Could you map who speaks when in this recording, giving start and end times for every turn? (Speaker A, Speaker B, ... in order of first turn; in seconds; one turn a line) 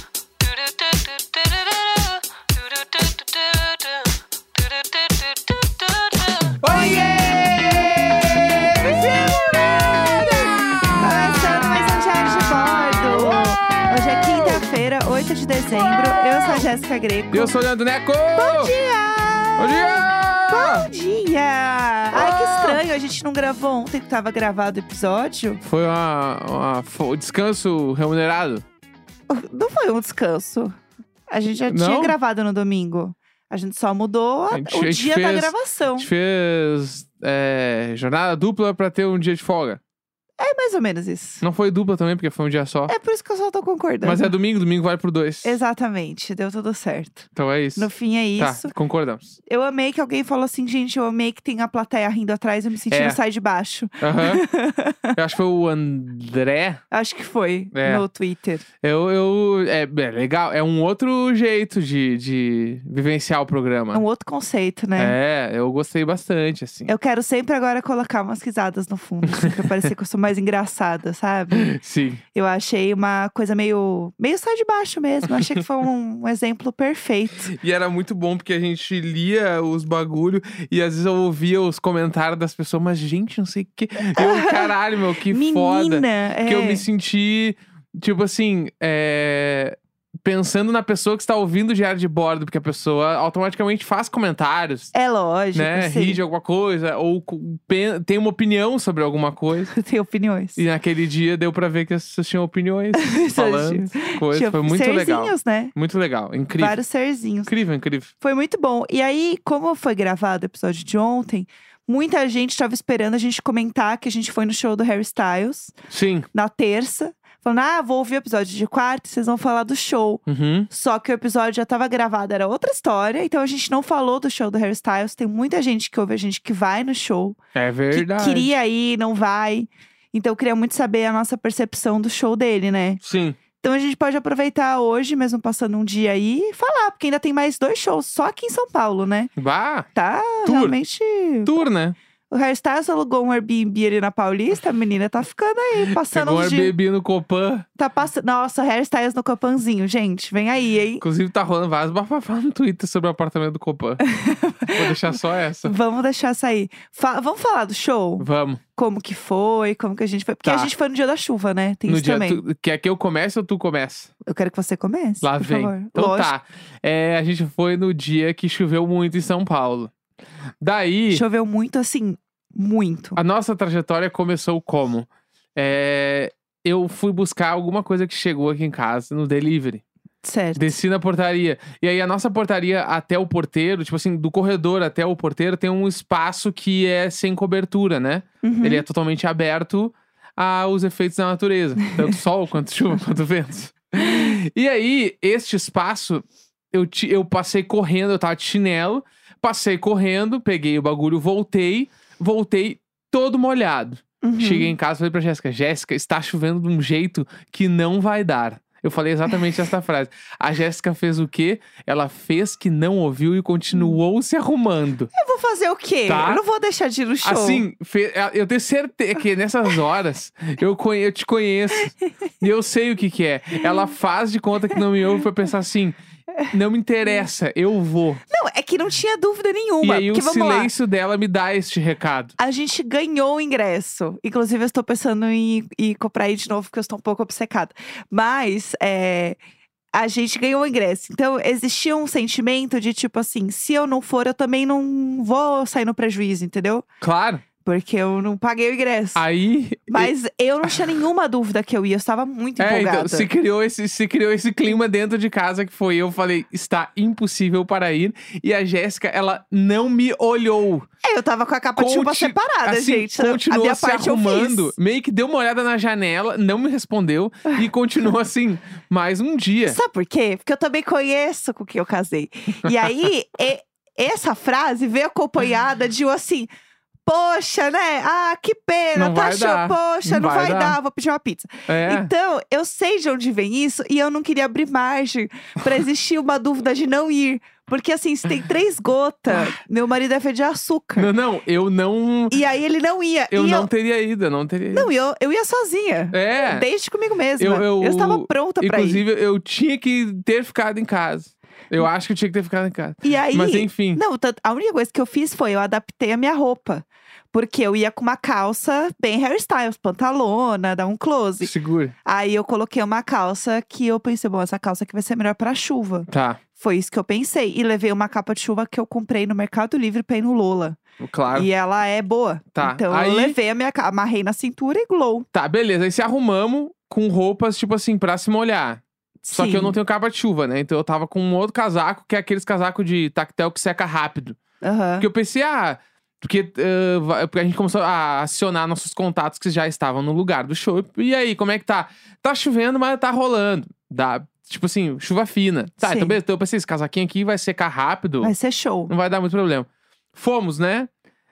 Speaker A: 0.4-2.1
Speaker A: 6.6-14.6
Speaker B: 6.7-17.6
Speaker A: 15.8-16.7
Speaker A: 17.3-18.7
Speaker B: 18.4-25.6
Speaker A: 19.6-20.9
Speaker A: 22.1-22.8
Speaker A: 25.6-28.6
Speaker B: 29.3-30.8
Speaker B: 31.3-36.1
Speaker A: 31.7-32.2
Speaker A: 34.5-39.8
Speaker B: 40.4-41.4
Speaker A: 41.4-42.9
Speaker B: 42.9-44.3
Speaker A: 44.0-45.6
Speaker B: 45.4-48.7
Speaker A: 47.4-49.3
Speaker B: 49.5-55.1
Speaker A: 52.9-53.2
Speaker A: 54.0-54.4
Speaker A: 55.1-56.8
Speaker B: 56.9-58.6
Speaker A: 57.7-58.0
Speaker A: 58.8-64.0
Speaker B: 63.9-65.2
Speaker A: 65.0-66.9
Speaker B: 66.9-71.7
Speaker A: 71.5-72.2
Speaker B: 72.3-77.5
Speaker A: 77.5-94.9
Speaker B: 84.1-84.7
Speaker B: 85.3-86.8
Speaker B: 94.9-96.2
Speaker A: 95.5-99.7
Speaker B: 99.7-100.6
Speaker A: 100.6-106.8
Speaker B: 103.0-105.7
Speaker B: 106.6-107.5
Speaker A: 107.5-108.1
Speaker B: 108.2-115.8
Speaker A: 115.9-116.3
Speaker B: 116.3-127.4
Speaker A: 120.3-120.7
Speaker A: 127.5-128.5
Speaker B: 127.9-133.0
Speaker A: 133.0-133.4
Speaker B: 133.6-139.3
Speaker A: 139.4-139.9
Speaker B: 139.9-141.5
Speaker A: 140.4-140.8
Speaker A: 141.4-142.0
Speaker B: 142.3-146.7
Speaker A: 146.0-147.7
Speaker B: 147.8-151.0
Speaker A: 151.0-154.1
Speaker B: 154.0-162.4
Speaker A: 154.7-155.7
Speaker A: 158.2-158.6
Speaker A: 160.4-160.7
Speaker A: 161.9-164.1
Speaker B: 164.2-166.3
Speaker A: 165.2-169.9
Speaker A: 170.6-171.2
Speaker B: 171.1-173.2
Speaker A: 173.2-179.8
Speaker B: 180.2-180.8
Speaker A: 180.6-215.1
Speaker B: 188.4-188.8
Speaker B: 204.2-204.7
Speaker B: 215.1-217.7
Speaker A: 216.1-216.4
Speaker A: 217.2-226.0
Speaker A: 226.5-228.2
Speaker B: 228.3-230.7
Speaker A: 229.8-232.3
Speaker B: 232.4-239.4
Speaker B: 239.9-246.8
Speaker A: 247.0-247.4
Speaker B: 247.6-249.2
Speaker A: 249.2-250.1
Speaker B: 249.9-253.3
Speaker A: 252.6-260.9
Speaker B: 261.0-264.7
Speaker A: 261.8-269.8
Speaker B: 269.7-276.5
Speaker B: 277.1-291.1
Speaker A: 279.0-280.8
Speaker A: 281.7-282.1
Speaker A: 291.0-292.4
Speaker B: 292.3-293.7
Speaker A: 293.3-294.9
Speaker B: 294.7-299.0
Speaker A: 296.1-296.7
Speaker A: 297.4-304.0
Speaker B: 303.0-311.5
Speaker A: 311.4-311.9
Speaker B: 312.1-320.8
Speaker A: 316.1-316.4
Speaker A: 321.0-321.5
Speaker B: 321.3-325.3
Speaker A: 322.6-323.4
Speaker A: 325.3-328.8
Speaker B: 329.2-329.8
Speaker A: 329.3-334.4
Speaker B: 334.6-335.1
Speaker A: 335.0-348.3
Speaker B: 345.8-346.2
Speaker B: 348.2-348.9
Speaker A: 348.9-350.9